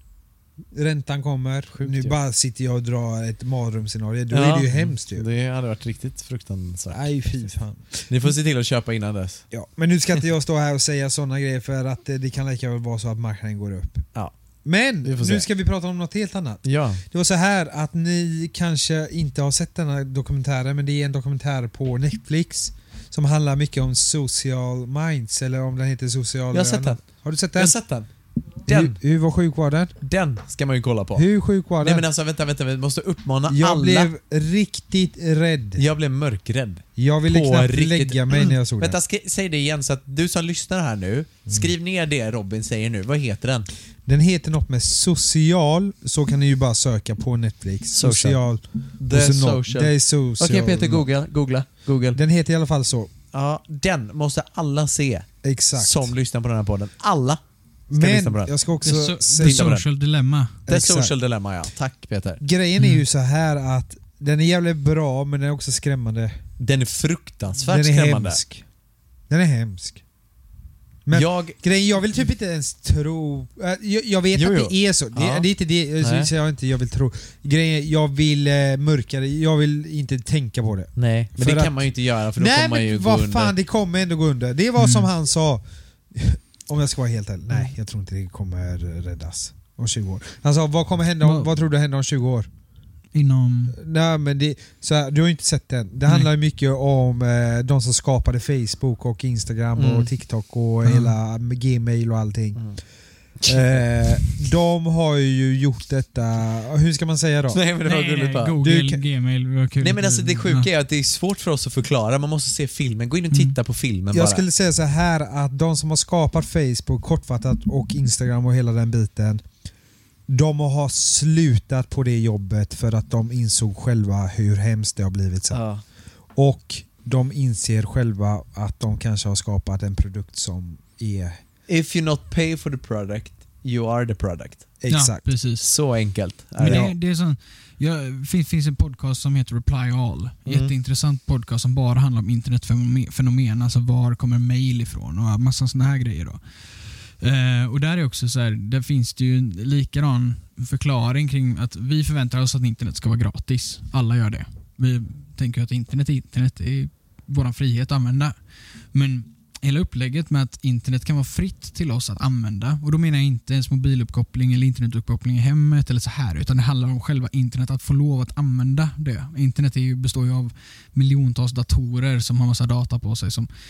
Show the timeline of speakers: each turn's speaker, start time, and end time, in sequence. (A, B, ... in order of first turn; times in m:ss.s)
0:00.7-0:05.3 A
0:01.7-0:02.2 B
0:04.3-0:07.1 B
0:06.9-0:08.0 A
0:08.1-0:09.4 B
0:09.5-0:14.1 A
0:14.6-0:27.8 A
0:15.0-0:15.5 B
0:16.6-0:17.0 B
0:26.5-0:27.0 B
0:27.6-0:28.1 B
0:28.7-0:29.0 B
0:28.7-0:30.0 A
0:30.0-0:31.3 B
0:31.2-0:32.0 A
0:31.8-0:34.1 B
0:33.5-0:35.8 A
0:35.8-0:43.7 B
0:37.0-0:39.0 A
0:44.1-0:51.1 A
0:47.9-0:48.4 B
0:49.0-0:52.2 B
0:52.1-0:53.1 A
0:53.3-0:57.4 B
0:55.4-0:56.1 A
0:57.9-0:59.8 A
0:58.0-0:58.5 B
0:58.8-1:00.6 C
0:59.4-0:59.9 B
1:00.7-1:01.1 A
1:00.7-1:02.4 B
1:02.4-1:06.4 A
1:02.8-1:03.0 C
1:06.6-1:08.4 B
1:07.6-1:08.6 A
1:09.3-1:10.0 A
1:11.1-1:25.6 A
1:11.1-1:11.6 B
1:14.4-1:15.5 B
1:16.0-1:16.3 B
1:21.0-1:23.5 B
1:24.8-1:25.1 C
1:26.1-1:32.5 A
1:31.2-1:31.5 C
1:33.1-1:33.8 C
1:33.7-1:42.7 A
1:39.8-1:40.1 B
1:40.8-1:41.2 C
1:42.6-1:42.8 B
1:43.4-1:44.4 B
1:43.5-1:47.6 A
1:47.5-1:48.6 B
1:47.8-1:50.7 C
1:48.6-1:49.0 A
1:49.8-1:54.4 B
1:53.3-1:53.6 C
1:54.1-1:59.4 A
2:00.3-2:05.6 A
2:05.5-2:05.8 B
2:06.4-2:11.4 A
2:11.7-2:14.7 B
2:14.8-2:15.2 A
2:14.9-2:15.7 C
2:15.6-2:16.9 B
2:16.6-2:53.5 C
2:16.6-2:16.9 A
2:20.4-2:20.7 B